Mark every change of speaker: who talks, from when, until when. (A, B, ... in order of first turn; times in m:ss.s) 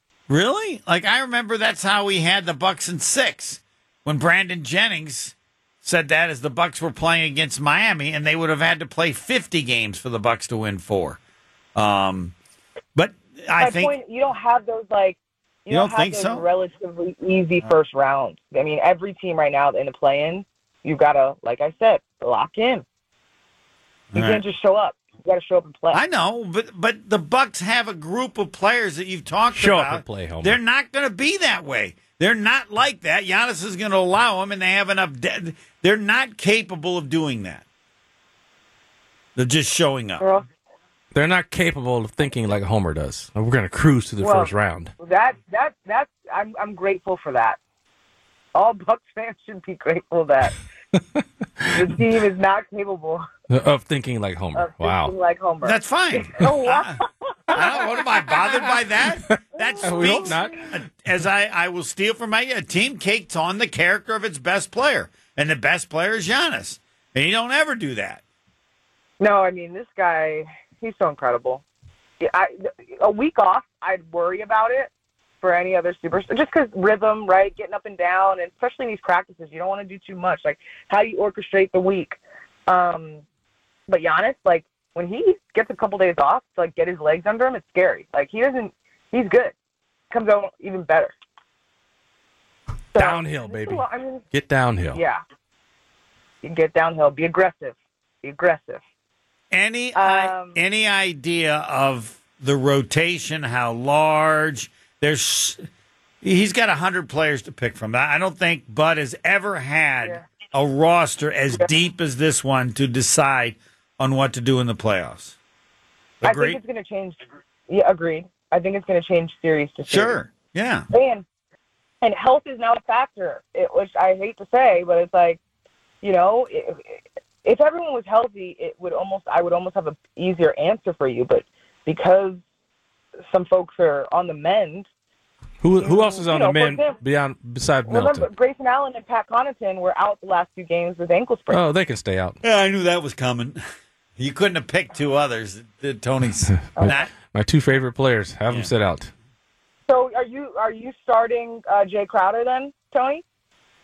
0:00.3-0:11.2 A
0:11.8-0:12.4 A
0:13.0-0:14.0 A
0:13.6-0:22.8 B
0:15.7-0:16.4 A
0:24.1-0:24.4 A
0:24.1-0:26.0 B
0:25.9-0:37.6 A
0:29.5-0:30.6 C
0:39.4-0:40.2 A
0:40.2-0:40.5 B
0:41.1-0:44.9 C
0:44.2-0:47.6 B
0:48.5-0:50.6 B
0:51.0-0:51.8 C
0:51.7-0:53.2 B
0:53.5-0:55.1 C
0:54.5-0:57.8 B
0:55.6-0:57.0 A
0:57.5-1:08.2 A
0:57.5-1:00.7 C
0:59.6-1:00.6 B
1:09.2-1:11.6 B
1:12.2-1:14.9 B
1:15.4-1:23.2 B
1:23.9-1:29.5 B
1:30.1-1:31.1 B
1:32.9-1:34.2 B
1:32.9-1:35.0 C
1:34.9-1:35.2 B
1:36.4-1:38.8 B
1:39.5-1:45.6 A
1:40.0-1:40.6 B
1:46.2-1:55.4 A
1:56.2-1:56.6 A
1:56.2-2:00.2 B
1:59.9-2:00.9 A
2:00.9-2:01.2 B
2:02.0-2:05.4 B
2:06.0-2:12.4 B
2:13.3-2:14.9 B
2:15.6-2:18.3 C
2:15.8-2:17.0 B
2:17.9-2:21.6 B
2:21.5-2:22.4 C
2:22.4-2:23.6 A
2:24.2-2:27.1 A
2:26.5-2:29.1 C
2:29.9-2:33.2 B